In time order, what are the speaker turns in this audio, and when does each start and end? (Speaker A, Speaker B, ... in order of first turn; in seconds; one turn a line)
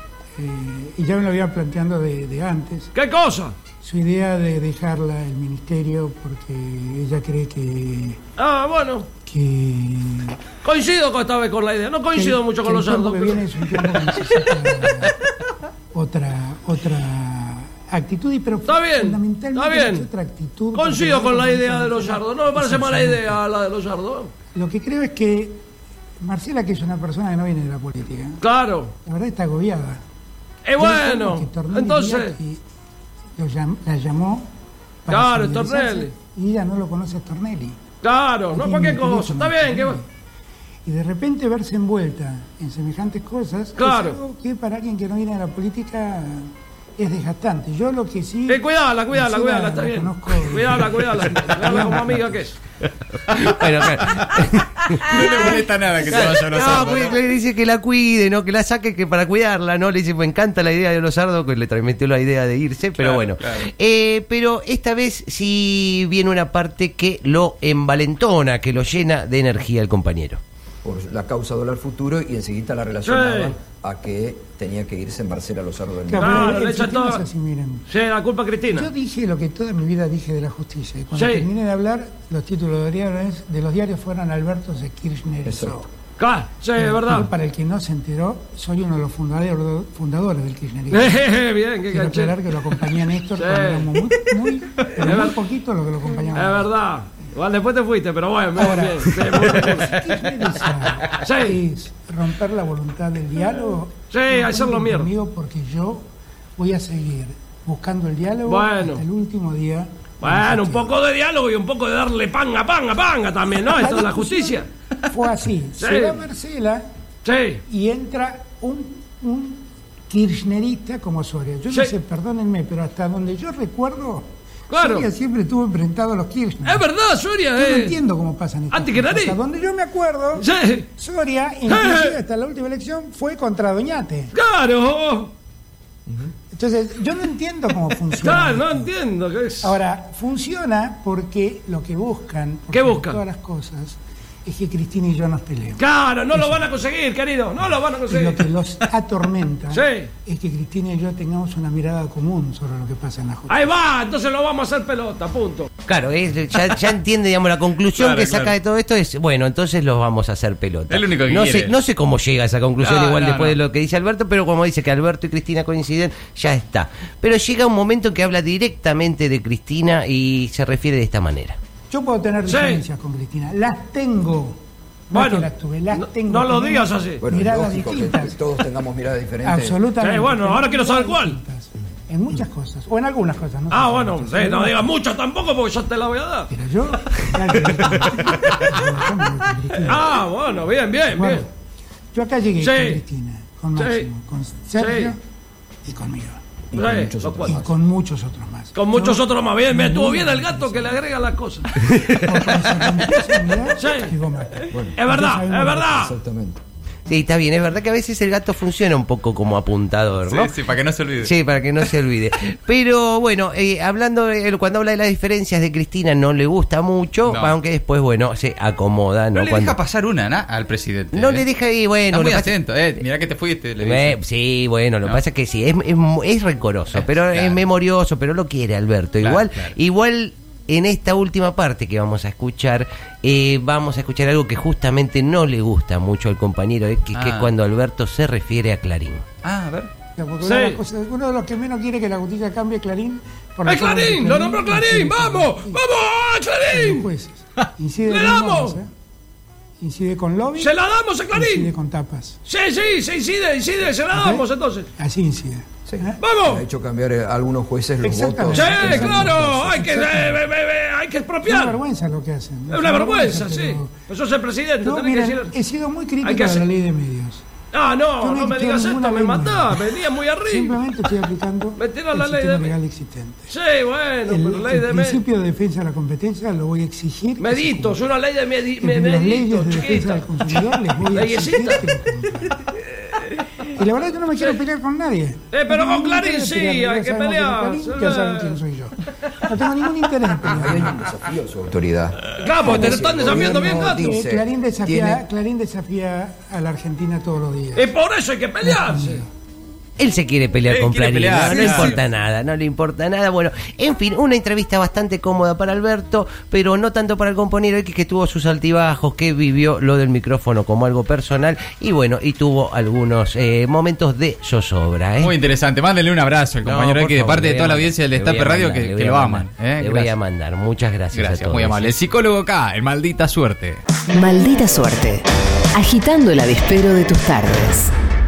Speaker A: 0.4-2.9
Speaker B: 2.9-3.5
Speaker A: 3.8-8.2
Speaker B: 8.4-9.1
Speaker A: 9.3-10.4
Speaker B: 10.6-14.9
Speaker A: 12.1-15.2
Speaker A: 15.9-23.4
Speaker B: 18.7-20.1
Speaker B: 20.7-24.3
Speaker A: 24.6-25.6
Speaker A: 26.2-28.4
Speaker B: 28.4-28.9
Speaker A: 29.1-30.0
Speaker B: 30.6-32.4
Speaker A: 30.8-32.6
Speaker A: 33.4-34.5
Speaker A: 35.0-37.8
Speaker B: 35.1-36.1
Speaker B: 38.0-40.0
Speaker A: 38.5-40.1
Speaker A: 40.9-52.4
Speaker B: 43.8-44.2
Speaker B: 48.5-52.6
Speaker C: 53.3-70.4
Speaker D: 53.3-54.3
Speaker D: 54.9-57.2
Speaker B: 56.1-57.1
Speaker D: 63.0-63.7
Speaker E: 70.8-76.6
Speaker B: 73.0-73.6
Speaker A: 76.1-77.9
Speaker B: 76.2-77.2
Speaker B: 77.9-78.9
Speaker A: 78.7-85.9
Speaker B: 81.1-81.5
Speaker E: 85.5-85.8
Speaker B: 86.2-87.3
Speaker A: 86.8-91.2
Speaker B: 90.9-95.4
Speaker A: 91.9-96.7
Speaker B: 96.3-101.6
Speaker A: 98.5-106.1
Speaker B: 104.1-105.1
Speaker A: 106.6-111.0
Speaker B: 108.5-109.0
Speaker B: 110.2-114.7
Speaker A: 113.7-116.8
Speaker B: 115.8-116.2
Speaker B: 117.2-117.6
Speaker A: 117.7-126.9
Speaker B: 124.7-125.1
Speaker B: 126.7-128.0
Speaker A: 127.5-134.3
Speaker B: 128.7-129.4
Speaker B: 130.4-130.9
Speaker B: 131.7-132.2
Speaker B: 134.3-135.3
Speaker A: 136.5-138.9
Speaker B: 138.2-139.8
Speaker A: 139.6-146.7
Speaker B: 142.7-143.2
Speaker B: 145.8-148.5
Speaker A: 148.1-153.7
Speaker B: 149.7-150.1
Speaker B: 153.5-155.7
Speaker C: 155.9-171.6
Speaker D: 158.0-158.5
Speaker D: 160.9-161.7
Speaker D: 162.8-163.6
Speaker A: 171.9-174.6
Speaker B: 172.5-172.8
Speaker A: 175.1-178.4
Speaker B: 175.1-177.2
Speaker E: 177.2-179.8
Speaker A: 179.4-184.9
Speaker B: 180.0-181.4
Speaker B: 183.7-186.5
Speaker A: 186.5-190.2
Speaker B: 187.2-188.9
Speaker B: 189.9-191.4
Speaker A: 191.1-191.5
Speaker A: 192.1-195.2
Speaker B: 192.6-193.0
Speaker B: 193.8-194.1
Speaker B: 194.8-195.1
Speaker A: 195.8-196.4
Speaker E: 196.7-197.7
Speaker B: 196.7-197.6
Speaker A: 197.4-201.1
Speaker B: 198.8-201.7
Speaker A: 202.2-205.9
Speaker B: 203.8-204.2
Speaker E: 204.7-205.0
Speaker B: 204.9-206.2
Speaker E: 205.8-206.6
Speaker C: 207.1-210.6
Speaker D: 210.3-211.3
Speaker C: 211.2-219.8
Speaker D: 217.3-217.6
Speaker D: 219.3-221.5
Speaker C: 221.1-222.6
Speaker D: 222.1-224.2
Speaker C: 223.8-239.2
Speaker D: 226.9-227.7
Speaker D: 229.2-229.7
Speaker D: 237.1-237.5
Speaker D: 239.4-239.9
Speaker A: 240.2-245.8
Speaker B: 240.4-240.8
Speaker B: 243.7-247.1
Speaker A: 246.7-248.9
Speaker B: 248.1-248.8
Speaker A: 249.8-250.8
Speaker B: 250.6-251.7
Speaker A: 251.3-252.4
Speaker B: 252.5-254.9
Speaker A: 254.1-254.5
Speaker A: 255.0-256.2
Speaker E: 255.9-259.6
Speaker B: 256.2-256.6
Speaker A: 258.0-260.5
Speaker B: 258.5-261.8
Speaker A: 261.4-263.9
Speaker B: 262.7-265.5
Speaker A: 264.8-267.4
Speaker B: 266.2-266.7
Speaker B: 267.7-270.9
Speaker A: 268.2-269.8
Speaker A: 270.4-273.5
Speaker B: 271.8-272.8
Speaker B: 273.5-275.2
Speaker A: 274.3-278.0
Speaker B: 277.4-281.9
Speaker A: 278.8-282.7
Speaker B: 282.9-283.7
Speaker A: 283.7-291.0
Speaker B: 285.5-288.6
Speaker E: 290.4-295.2
Speaker B: 292.4-294.2
Speaker A: 292.6-297.9
Speaker B: 297.8-299.2
Speaker A: 298.6-299.3
Speaker C: 300.0-315.4
Speaker D: 300.7-302.0
Speaker B: 301.4-302.0
Speaker D: 315.2-320.1
Speaker C: 316.6-322.0
Speaker D: 321.1-323.8
Speaker F: 324.1-325.2
Speaker F: 325.8-327.9